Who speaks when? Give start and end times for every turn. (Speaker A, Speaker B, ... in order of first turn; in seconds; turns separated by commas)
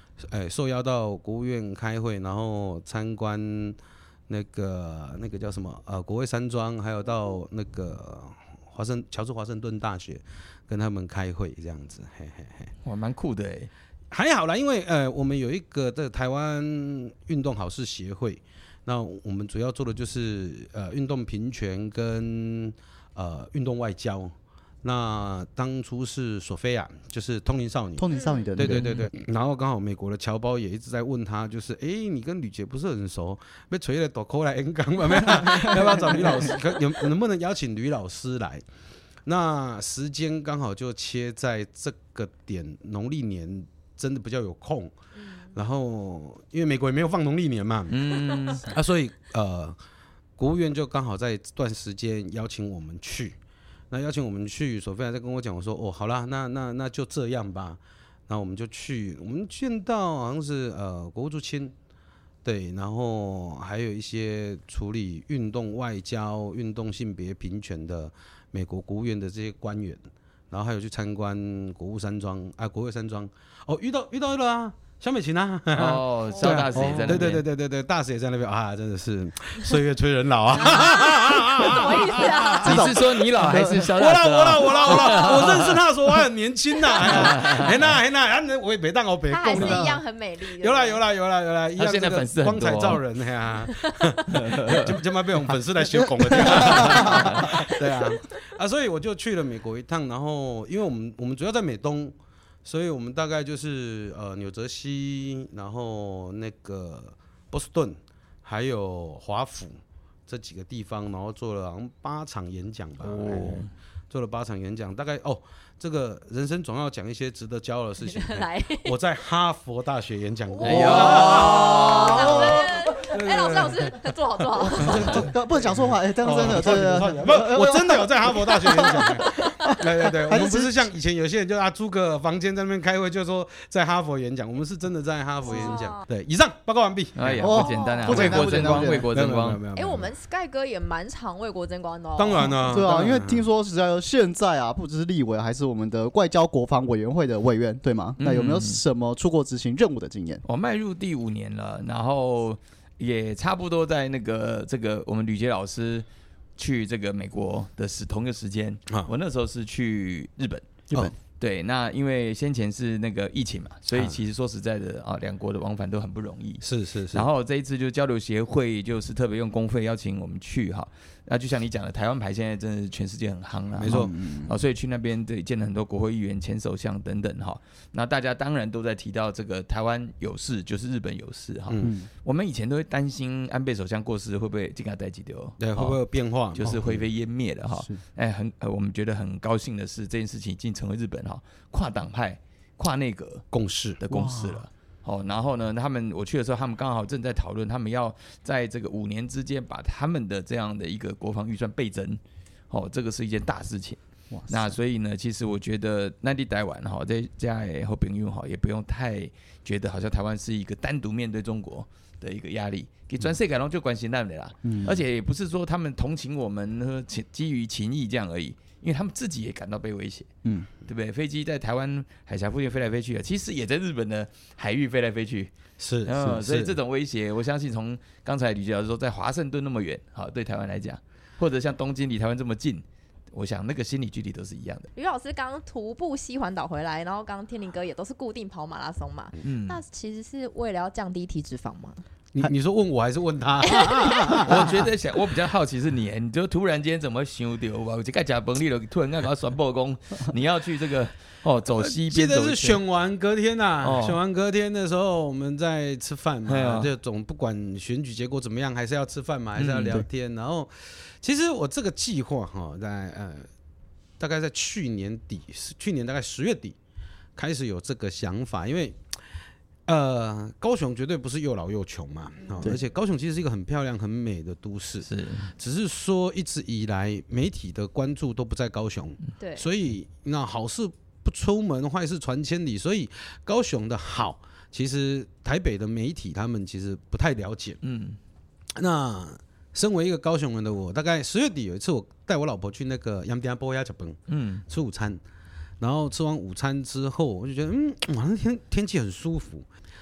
Speaker A: 0.3-3.8, Speaker A: 4.3-12.7, Speaker B: 12.8-13.7, Speaker A: 14.1-38.6, Speaker C: 28.0-29.1, Speaker D: 28.1-28.5, Speaker A: 39.2-44.9, Speaker D: 45.1-45.5, Speaker A: 45.5-49.8, Speaker B: 47.9-48.7, Speaker A: 50.4-53.4, Speaker A: 53.9-61.7, Speaker A: 62.4-90.0, Speaker B: 75.7-77.4, Speaker C: 76.7-77.3, Speaker D: 80.7-82.9, Speaker C: 82.6-83.9, Speaker B: 82.6-85.8, Speaker D: 84.7-85.3, Speaker B: 87.1-87.7, Speaker D: 89.3-91.0, Speaker C: 89.5-89.9, Speaker A: 90.6-124.0, Speaker B: 91.8-93.0, Speaker D: 93.7-94.1, Speaker B: 94.3-94.9, Speaker B: 96.6-97.5, Speaker C: 96.6-97.1, Speaker B: 113.0-113.7, Speaker D: 118.0-118.9, Speaker D: 120.6-125.3, Speaker B: 120.6-122.5, Speaker C: 122.2-122.6, Speaker C: 124.6-130.8, Speaker A: 124.7-140.1, Speaker D: 128.7-129.5, Speaker D: 135.5-136.0, Speaker B: 137.2-139.6, Speaker C: 137.4-139.1, Speaker D: 137.6-138.3, Speaker D: 139.8-142.8, Speaker A: 142.2-143.5, Speaker C: 142.6-150.4, Speaker B: 148.2-148.8, Speaker B: 150.4-156.1, Speaker B: 156.6-160.8, Speaker B: 161.4-186.0, Speaker A: 163.9-164.2, Speaker A: 166.6-167.3, Speaker A: 173.8-174.1, Speaker C: 173.8-174.5, Speaker A: 181.7-181.9, Speaker C: 181.8-182.1, Speaker A: 185.6-187.1, Speaker B: 186.5-193.4, Speaker C: 187.7-188.0, Speaker A: 193.5-194.0, Speaker B: 194.0-220.3, Speaker C: 194.1-194.6, Speaker C: 204.3-204.8, Speaker C: 214.6-215.0, Speaker C: 220.4-220.7, Speaker B: 220.8-225.5, Speaker A: 225.8-226.8, Speaker B: 226.0-234.9, Speaker D: 234.9-242.0, Speaker B: 239.4-239.8, Speaker A: 242.3-244.8, Speaker D: 243.7-244.6, Speaker B: 244.4-252.8, Speaker A: 251.8-263.5, Speaker B: 253.8-254.2, Speaker B: 256.4-256.9, Speaker B: 259.6-260.0, Speaker A: 264.2-266.8, Speaker A: 267.4-269.0, Speaker A: 269.9-287.8, Speaker B: 275.0-275.5, Speaker D: 279.4-279.7, Speaker B: 287.8-288.2, Speaker A: 288.8-295.2, Speaker B: 294.3-294.6, Speaker A: 295.8-299.7